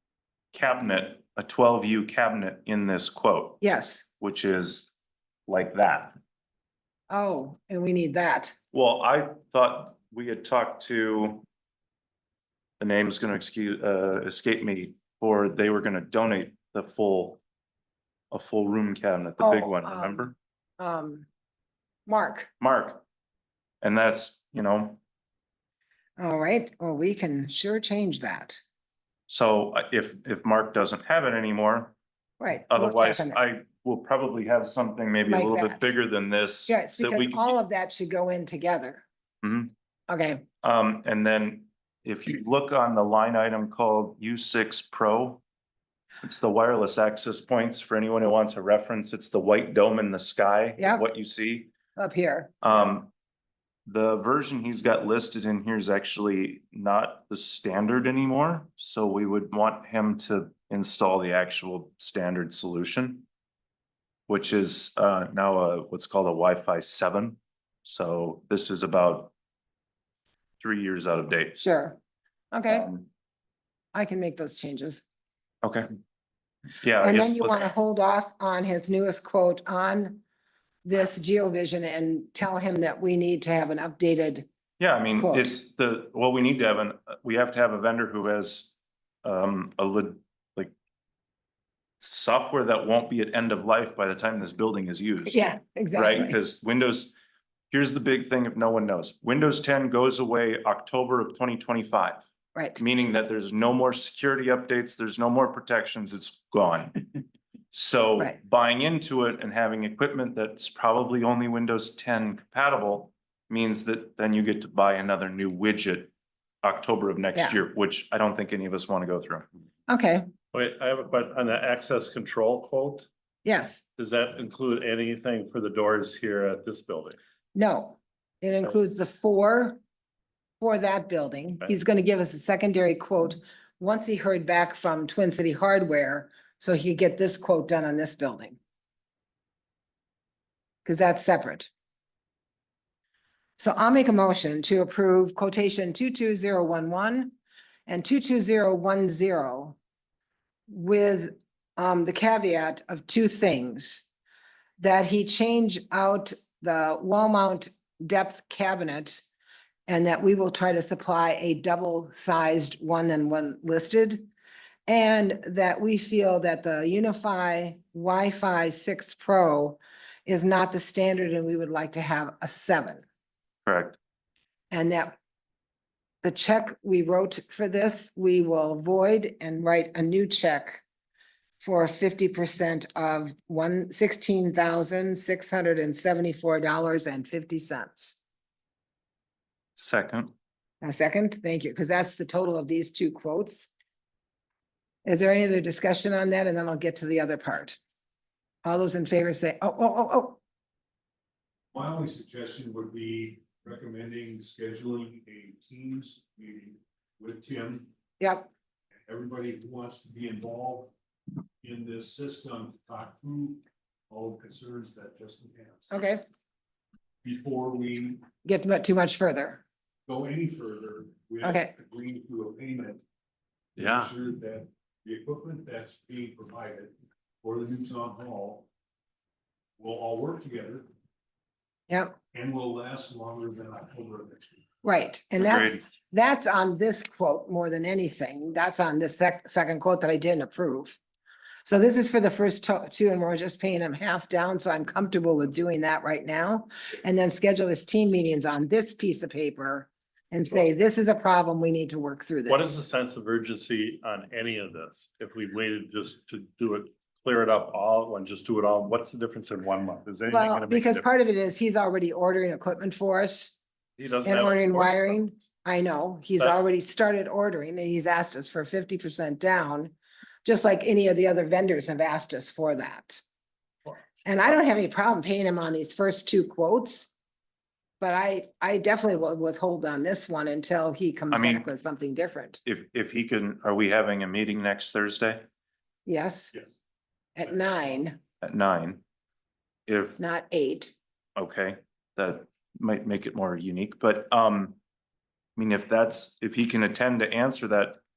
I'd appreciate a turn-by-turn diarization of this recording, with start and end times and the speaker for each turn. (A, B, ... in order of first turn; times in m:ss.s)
0:00.5-0:03.6 A
0:03.6-0:04.0 B
0:04.2-0:04.9 A
0:05.5-0:06.1 A
0:07.1-0:08.5 B
0:08.7-0:11.4 A
0:12.8-0:17.4 A
0:18.3-0:20.3 A
0:19.4-0:20.3 B
0:20.8-0:21.3 B
0:22.1-0:22.5 B
0:22.6-0:23.0 A
0:23.8-0:25.0 A
0:26.2-0:28.6 B
0:29.3-0:31.9 A
0:32.4-0:33.4 B
0:32.7-0:37.5 A
0:35.3-0:35.9 B
0:36.7-0:39.0 B
0:39.4-0:39.7 A
0:40.1-0:40.4 B
0:40.6-0:45.4 A
0:46.2-0:51.7 A
0:50.8-0:51.0 B
0:52.0-0:52.9 B
0:52.6-0:53.1 A
0:53.9-1:03.2 A
1:04.3-1:09.3 A
1:10.6-1:11.6 A
1:11.6-1:12.0 B
1:12.5-1:12.9 B
1:12.7-1:13.1 A
1:13.9-1:15.0 B
1:15.6-1:15.9 A
1:16.8-1:17.7 A
1:17.0-1:20.2 B
1:20.8-1:24.5 B
1:24.8-1:28.7 A
1:25.2-1:25.5 B
1:29.2-1:30.7 A
1:32.0-1:37.1 A
1:35.3-1:36.4 B
1:37.7-1:47.1 A
1:42.5-1:42.8 B
1:47.7-1:56.1 A
1:56.6-1:59.4 A
1:59.9-2:00.3 B
2:00.5-2:03.1 C
2:03.4-2:03.8 B
2:04.0-2:07.2 C
2:07.5-2:09.8 B
2:10.6-2:18.6 B
2:20.8-2:21.7 B
2:23.6-2:27.3 B
2:27.9-2:29.8 B
2:30.7-2:34.1 B
2:34.8-2:39.2 B
2:39.9-2:44.3 B
2:44.9-2:53.0 B
2:53.6-2:54.0 A
2:54.7-2:55.2 B
2:56.2-3:00.8 B
3:01.6-3:08.2 B
3:09.8-3:10.3 A
3:10.8-3:13.7 B
3:15.0-3:17.8 B
3:18.6-3:20.4 B
3:21.7-3:27.9 D
3:28.2-3:28.5 B
3:29.1-3:30.9 D
3:31.6-3:35.9 D
3:35.9-3:36.2 B
3:37.2-3:38.2 D
3:38.4-3:39.6 B
3:40.1-3:43.0 D
3:41.4-3:41.7 B
3:43.8-3:44.1 A
3:43.8-3:48.7 D
3:49.8-3:50.8 D
3:51.9-3:52.2 B
3:52.3-3:54.6 D
3:54.8-4:01.0 B
3:55.4-3:55.8 A
4:01.6-4:12.7 B
4:12.5-4:21.1 C
4:20.3-4:23.6 B
4:24.0-4:25.2 C
4:24.2-4:33.2 B
4:34.2-4:37.1 B
4:38.0-4:42.6 B
4:41.3-4:41.6 A
4:42.6-4:45.4 A
4:46.0-4:46.6 B
4:47.4-4:48.2 B
4:48.4-4:49.0 A
4:49.9-4:50.2 A
4:50.2-4:50.9 B
4:51.4-4:54.8 A
4:55.6-4:58.0 A